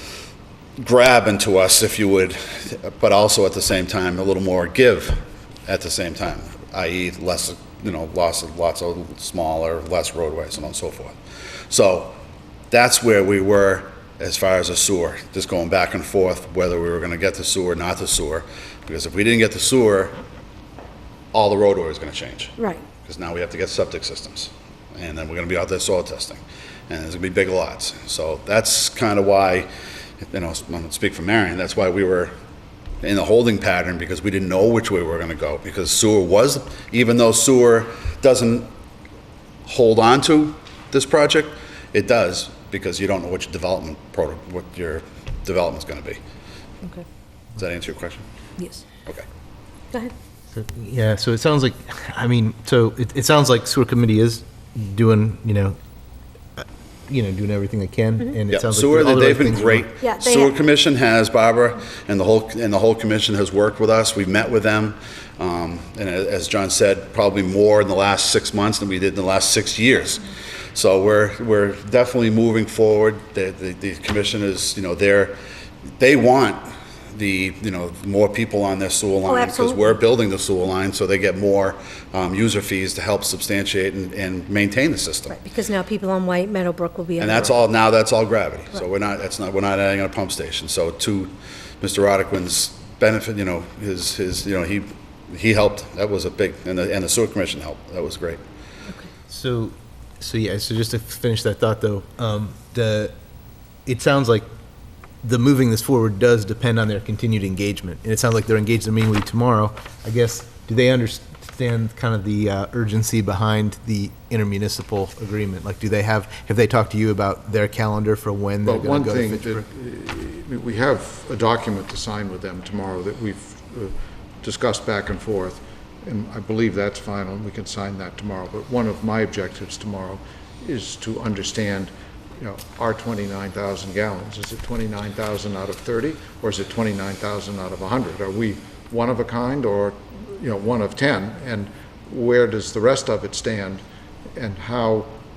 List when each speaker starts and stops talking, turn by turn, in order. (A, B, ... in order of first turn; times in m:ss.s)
0:00.8-0:11.2 A
0:11.7-0:12.2 A
0:12.7-0:20.2 A
0:21.3-0:29.7 A
0:22.6-0:22.8 B
0:30.2-0:32.3 A
0:33.0-0:38.7 A
0:39.6-0:46.2 A
0:47.6-0:48.3 A
0:48.6-0:48.8 B
0:50.5-0:55.8 C
0:56.6-0:59.9 C
0:58.5-1:15.4 A
1:00.0-1:00.6 B
1:16.0-1:25.3 A
1:19.3-1:20.0 B
1:25.3-1:27.5 B
1:27.2-1:38.4 A
1:39.3-1:43.1 C
1:43.8-1:44.4 C
1:45.2-1:59.6 C
1:58.6-2:23.8 D
2:24.4-2:25.2 D